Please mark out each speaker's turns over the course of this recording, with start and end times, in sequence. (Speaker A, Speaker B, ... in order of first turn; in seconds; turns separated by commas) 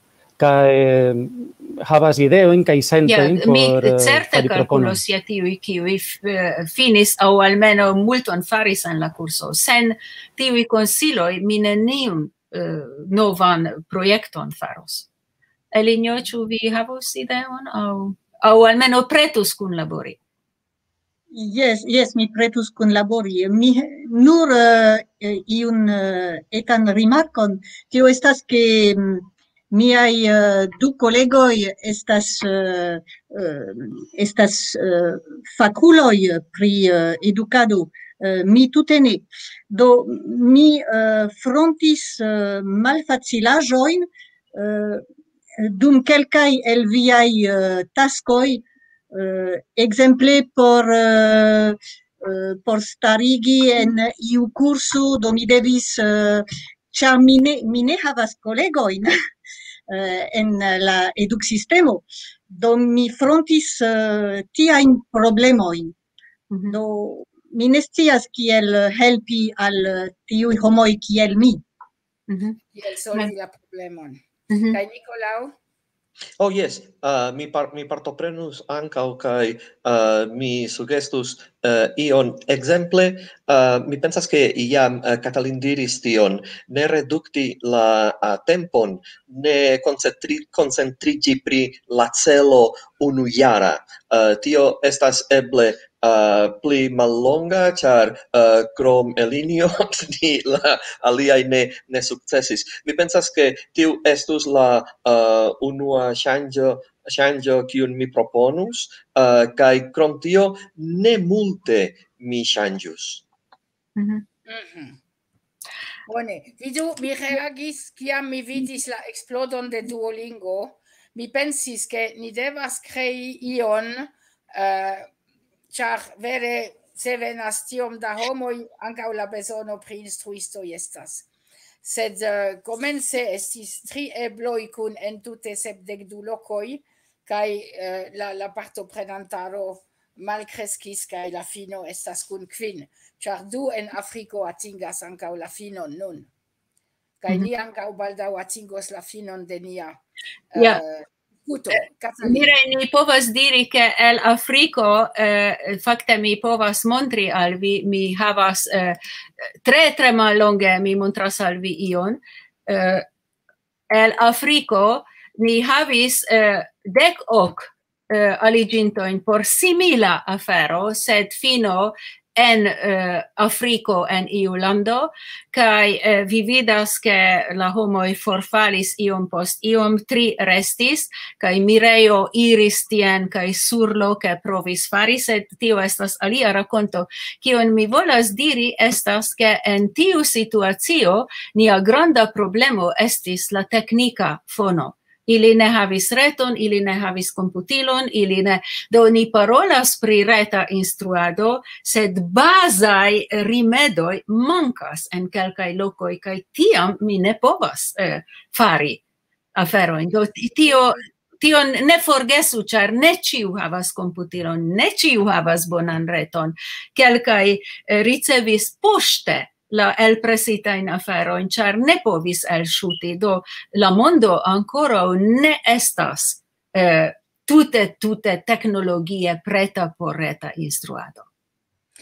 Speaker A: 0.4-5.0, Speaker B: 3.0-15.1, Speaker B: 15.7-20.2, Speaker C: 21.3-45.0, Speaker C: 45.6-59.1, Speaker C: 59.9-65.9, Speaker B: 66.5-66.8, Speaker C: 66.7-71.6, Speaker B: 72.3-72.6, Speaker D: 72.7-75.5, Speaker B: 74.5-74.8, Speaker E: 76.4-113.2, Speaker B: 114.0-114.2, Speaker D: 114.5-115.0, Speaker D: 116.1-125.1, Speaker D: 125.7-131.3, Speaker D: 131.8-146.3, Speaker D: 147.2-150.0, Speaker D: 150.5-152.5, Speaker B: 150.6-150.8, Speaker B: 152.2-159.0, Speaker B: 159.6-163.1, Speaker B: 163.9-209.0, Speaker B: 209.6-231.3